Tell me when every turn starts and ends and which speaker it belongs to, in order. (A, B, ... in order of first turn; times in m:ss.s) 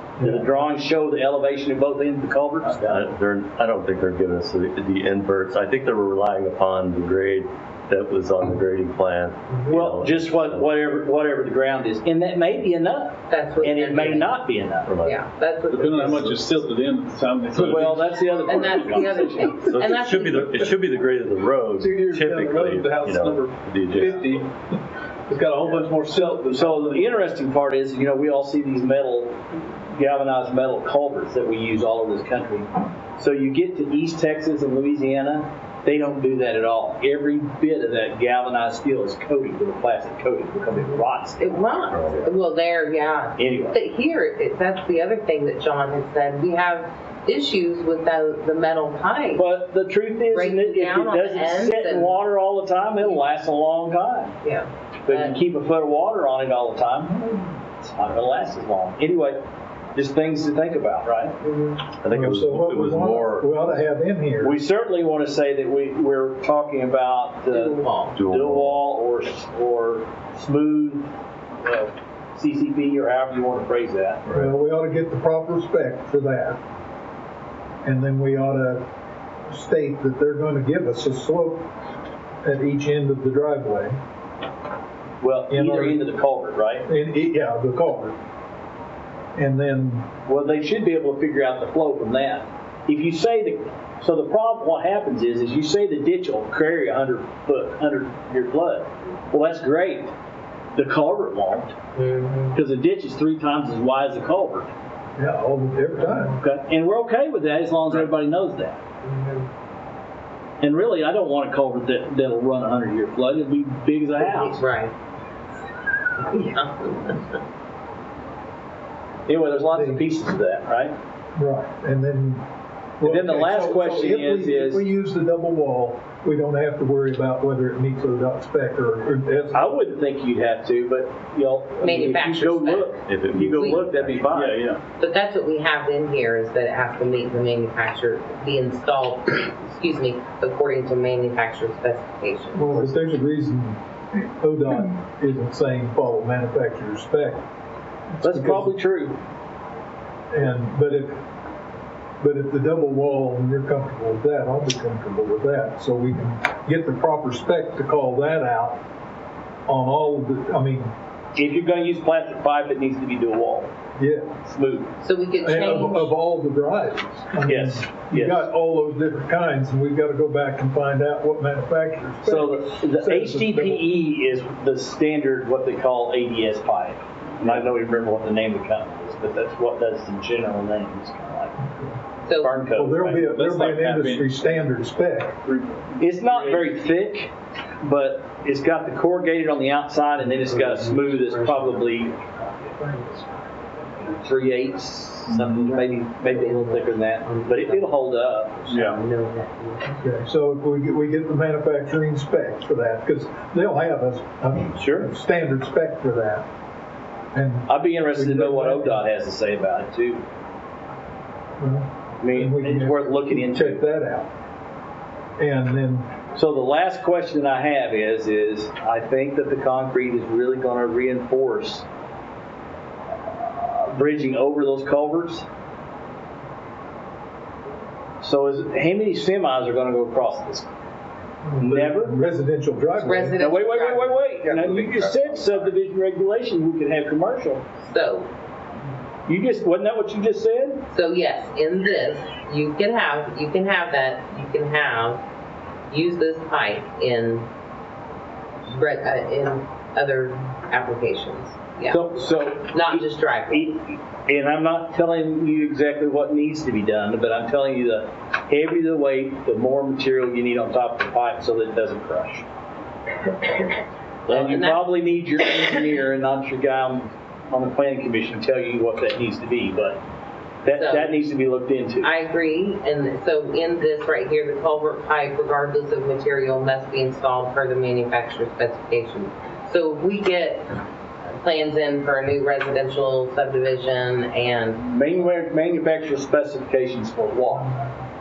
0:00.2-0:00.6 A
0:00.2-0:03.0 B
0:02.7-0:10.7 C
0:09.7-0:14.9 B
0:13.3-0:14.4 D
0:14.8-0:15.2 C
0:15.0-0:16.5 D
0:15.7-0:19.5 E
0:17.5-0:19.5 B
0:18.4-0:20.7 D
0:19.6-0:24.2 C
0:21.8-0:24.4 E
0:22.3-0:23.3 A
0:23.9-0:24.5 A
0:25.3-0:27.2 E
0:25.6-0:25.9 A
0:26.1-0:41.8 B
0:40.7-0:49.5 D
0:41.9-0:42.3 C
0:43.4-0:43.8 B
0:49.3-0:54.4 B
0:50.3-0:52.2 D
0:54.4-0:55.4 D
0:55.0-0:59.4 B
0:59.9-1:01.4 B
1:01.4-1:01.8 D
1:02.0-1:03.6 C
1:02.1-1:04.6 A
1:04.4-1:14.2 B
1:07.5-1:08.2 D
1:08.1-1:08.8 C
1:14.2-1:14.5 C
1:14.3-1:16.6 A
1:17.8-1:18.8 A
1:19.5-1:21.7 A
1:22.4-1:24.0 A
1:25.2-1:26.9 B
1:25.5-1:26.0 A
1:26.9-1:28.2 A
1:29.3-1:30.1 A
1:30.2-1:40.1 B
1:40.7-1:41.8 B
1:42.0-1:42.6 D
1:42.5-1:44.7 B
1:45.2-1:46.4 A
1:46.3-1:48.8 B
1:49.0-1:49.5 D
1:50.6-1:54.6 B
1:54.2-1:54.9 D
1:56.2-1:57.4 D
1:59.3-2:00.9 B
1:59.7-2:00.0 A
2:01.4-2:02.4 A
2:03.0-2:09.8 A
2:03.0-2:04.8 B
2:09.5-2:14.6 B
2:11.8-2:13.8 D
2:13.1-2:14.5 C
2:14.3-2:14.8 E
2:15.0-2:22.9 D
2:22.5-2:27.4 A
2:28.1-2:28.7 A
2:28.2-2:29.2 B
2:30.3-2:31.2 A
2:32.2-2:38.8 A
2:39.7-2:40.9 A
2:41.3-2:43.7 B
2:44.0-2:44.3 A
2:44.4-2:44.9 B
2:45.0-2:46.1 D
2:45.4-2:53.8 A
2:47.4-2:48.5 B
2:52.2-3:01.6 B
3:01.6-3:02.0 A
3:02.2-3:02.6 D
3:02.4-3:03.4 B
3:02.7-3:05.4 A
3:03.3-3:04.3 E
3:05.4-3:06.7 E
3:06.0-3:12.2 B
3:10.3-3:13.4 D
3:14.0-3:18.8 B
3:15.5-3:17.9 D
3:18.6-3:20.0 D
3:18.7-3:19.0 E
3:20.0-3:26.5 A
3:24.8-3:25.1 B
3:27.3-3:29.0 A
3:27.7-3:30.2 B
3:31.6-3:34.3 A
3:32.2-3:33.8 B
3:35.4-3:36.1 A
3:36.3-3:41.8 B
3:43.2-3:45.4 B
3:48.2-3:50.7 B
3:51.4-3:53.4 A
3:51.6-3:52.1 B
3:53.0-3:54.2 D
3:53.4-3:57.6 B
3:54.4-3:55.7 E
3:57.8-3:58.3 D
3:59.2-4:00.8 B
4:00.9-4:05.2 D
4:05.9-4:07.5 D
4:08.7-4:12.1 D
4:11.9-4:22.4 B
4:12.7-4:13.7 D
4:24.3-4:30.0 B
4:24.3-4:24.8 D
4:30.6-4:32.1 B
4:30.7-4:31.2 D
4:32.0-4:44.8 D
4:44.8-4:47.7 B